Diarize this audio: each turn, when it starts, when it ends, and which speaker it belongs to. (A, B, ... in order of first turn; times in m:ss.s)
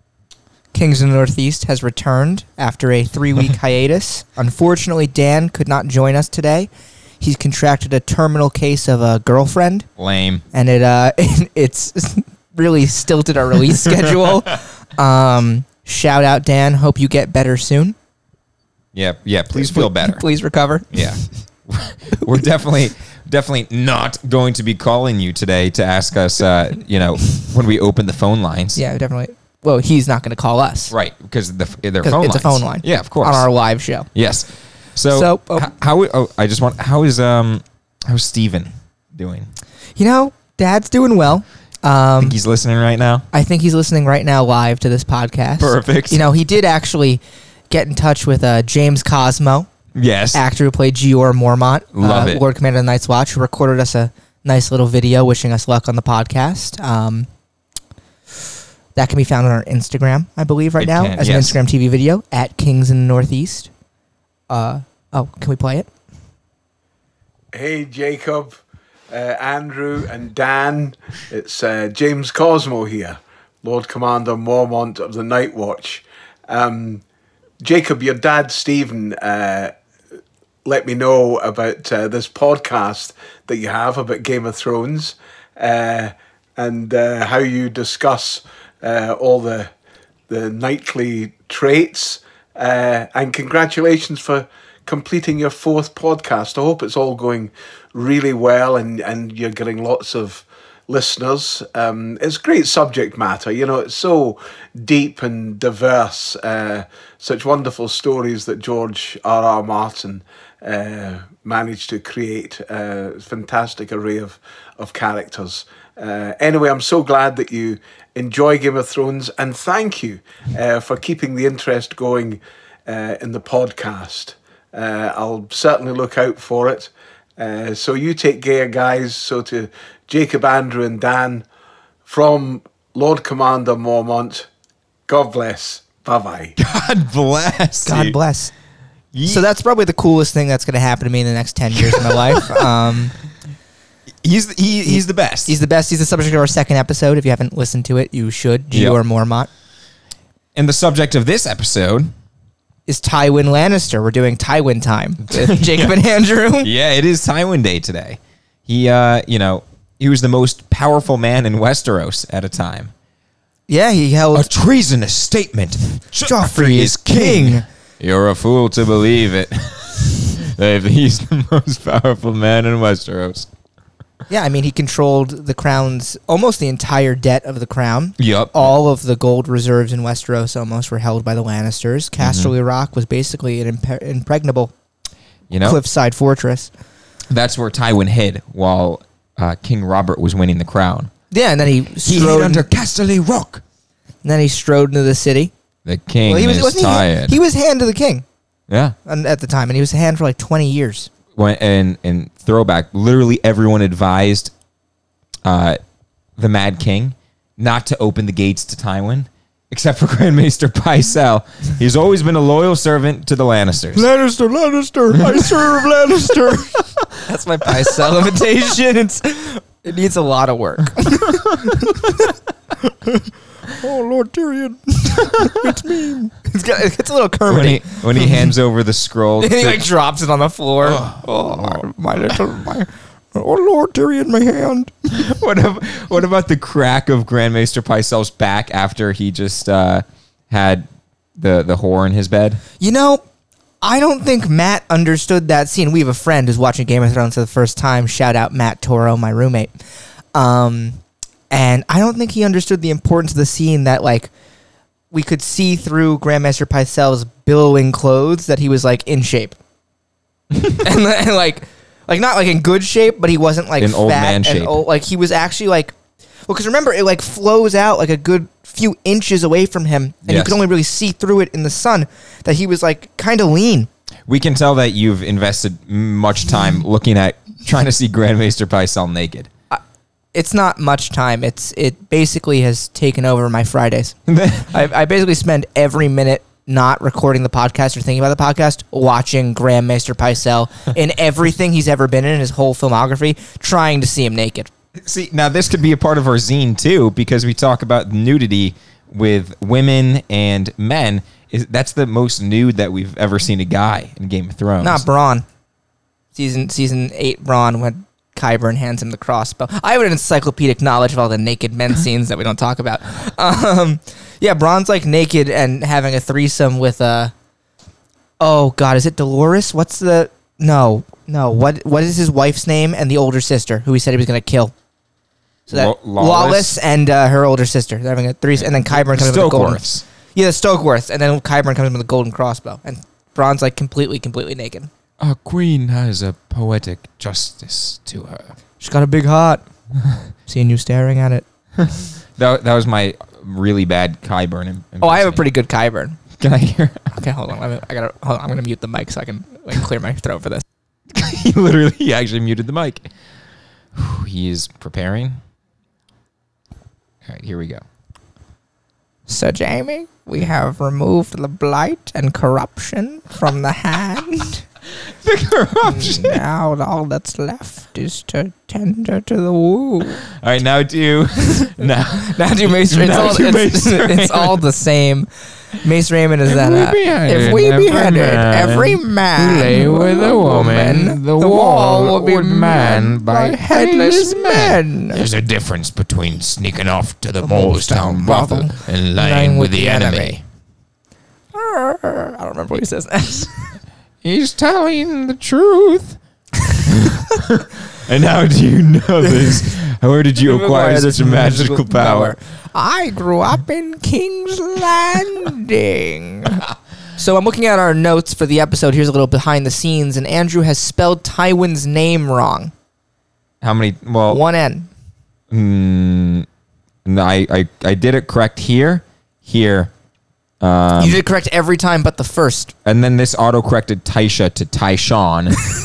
0:00.7-0:09.9 A
0:10.0-0:10.4 B
0:10.5-0:18.0 A
0:18.9-0:20.2 B
0:19.5-0:21.2 A
0:20.9-0:28.8 B
0:22.1-0:22.4 A
0:28.8-0:30.9 A
0:30.9-0:33.4 B
0:32.0-0:34.1 A
0:34.1-0:39.5 B
0:35.1-0:35.7 A
0:40.0-0:42.4 A
0:42.2-0:43.2 B
0:43.3-0:49.7 A
0:45.6-0:46.2 B
0:49.9-0:50.4 B
0:50.3-0:57.3 A
0:51.9-0:52.4 B
0:58.9-1:03.7 A
1:00.8-1:01.6 B
1:04.5-1:05.9 A
1:07.5-1:08.6 C
1:09.1-1:17.0 C
1:17.6-1:19.7 C
1:20.6-1:29.7 C
1:30.3-2:11.4 C
2:12.0-2:14.5 C
2:15.1-2:16.5 C
2:16.6-2:18.2 B
2:17.8-2:18.5 A
2:19.1-2:19.4 B
2:19.2-2:23.1 A
2:22.0-2:22.6 B
2:24.2-2:25.5 B
2:24.8-2:29.5 A
2:28.7-2:29.0 B
2:30.5-2:32.1 B
2:32.9-2:36.7 A
2:35.3-2:35.9 B
2:36.6-2:42.9 B
2:43.7-2:44.5 A
2:44.3-2:53.5 B
2:46.2-2:47.6 A
2:54.3-3:04.7 A
2:58.2-2:58.7 B
3:02.2-3:02.5 B
3:05.5-3:05.8 B
3:05.6-3:06.7 A
3:07.3-3:11.1 B
3:11.3-3:12.6 A
3:12.0-3:13.6 B
3:14.2-3:15.5 A
3:15.8-3:17.4 B
3:16.2-3:18.2 A
3:18.7-3:18.9 B
3:19.0-3:21.1 A
3:21.4-3:24.5 B
3:25.4-3:25.8 B
3:26.4-3:34.0 B
3:33.9-3:48.5 A
3:35.2-3:35.7 B
3:41.3-3:41.9 B
3:45.2-3:45.6 B
3:47.5-3:49.8 B
3:49.4-3:55.2 A
3:50.8-3:51.8 B
3:55.1-4:02.6 B
4:02.8-4:03.2 A
4:03.8-4:09.7 A
4:10.3-4:11.0 A
4:11.5-4:14.3 A
4:15.1-4:19.6 A
4:20.6-4:25.9 A
4:23.8-4:24.8 B
4:26.5-4:33.9 A
4:30.2-4:30.6 B
4:34.3-4:39.5 B
4:40.3-4:54.7 A
4:44.3-4:44.7 B
4:55.0-5:05.0 B
5:04.8-5:05.4 A
5:06.3-5:17.3 A
5:18.4-5:24.7 A
5:25.7-5:26.8 B
5:25.7-5:34.9 A
5:28.8-5:30.0 B
5:35.2-5:38.5 B
5:38.8-5:39.6 A
5:40.5-5:41.4 A
5:41.8-5:45.5 B
5:45.0-5:46.2 A
5:46.4-5:47.1 B
5:47.1-5:50.6 A
5:51.1-5:53.1 B
5:53.9-5:55.4 B
5:57.2-5:57.8 B
5:59.3-6:04.6 A
6:05.1-6:06.4 B
6:05.8-6:10.2 A
6:10.3-6:14.6 B
6:11.5-6:15.3 A
6:15.8-6:25.2 A
6:16.4-6:30.4 B
6:27.4-6:30.4 A
6:31.5-6:33.8 A
6:34.2-6:36.2 B
6:36.8-6:42.3 B
6:39.2-6:39.6 A
6:40.4-6:46.6 A
6:47.2-6:52.7 A
6:53.6-6:54.4 B
6:54.3-6:54.9 A
6:55.5-6:56.5 B
6:57.0-6:59.9 B
7:00.6-7:01.2 B
7:01.0-7:02.7 A
7:02.8-7:05.6 B